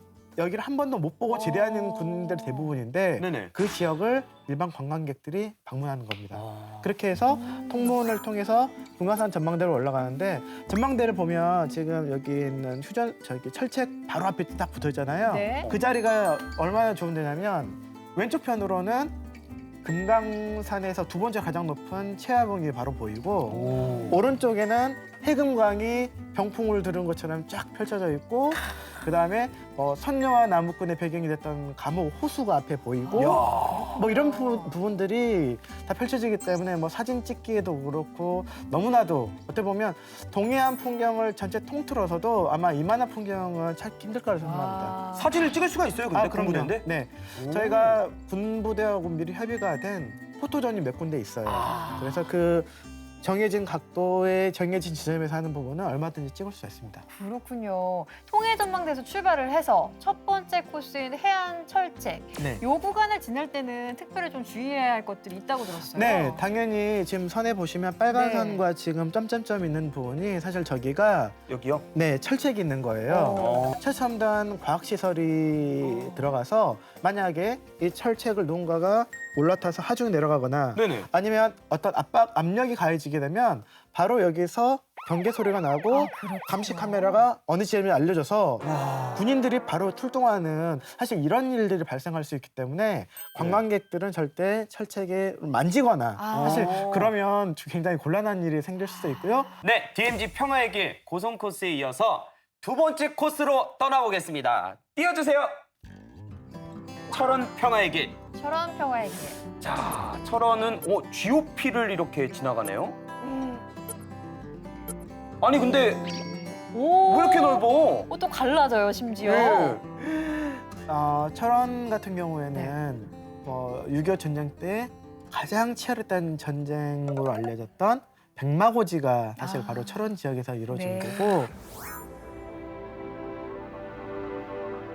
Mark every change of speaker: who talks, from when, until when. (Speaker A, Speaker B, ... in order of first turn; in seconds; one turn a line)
Speaker A: 0.3-19.1
Speaker B: 1.3-2.8
Speaker C: 3.2-3.5
Speaker C: 6.3-6.9
Speaker B: 7.3-8.0
Speaker B: 15.2-15.7
Speaker A: 19.8-45.0
Speaker B: 23.5-24.1
Speaker C: 23.6-24.2
Speaker B: 33.0-34.8
Speaker C: 33.1-34.0
Speaker B: 44.4-45.4
Speaker C: 45.1-48.0
Speaker A: 46.1-57.0
Speaker C: 51.5-52.2
Speaker B: 57.1-66.4
Speaker A: 65.8-71.4
Speaker B: 68.1-68.7
Speaker C: 71.5-71.8
Speaker A: 71.9-99.5
Speaker B: 73.1-73.6
Speaker C: 73.3-73.8
Speaker B: 75.8-76.3
Speaker C: 80.7-81.1
Speaker B: 85.9-87.3
Speaker C: 88.6-89.2
Speaker C: 93.4-93.6
Speaker B: 96.2-96.8
Speaker C: 96.4-97.1
Speaker B: 98.9-99.5
Speaker C: 99.6-105.5
Speaker C: 107.1-108.2
Speaker B: 108.3-109.4
Speaker C: 109.6-113.0
Speaker B: 113.2-113.6
Speaker C: 115.4-116.0
Speaker B: 115.5-119.8
Speaker C: 117.0-118.1
Speaker C: 119.2-119.9
Speaker A: 120.9-131.5
Speaker B: 122.5-122.8
Speaker B: 129.4-130.0
Speaker B: 130.7-131.5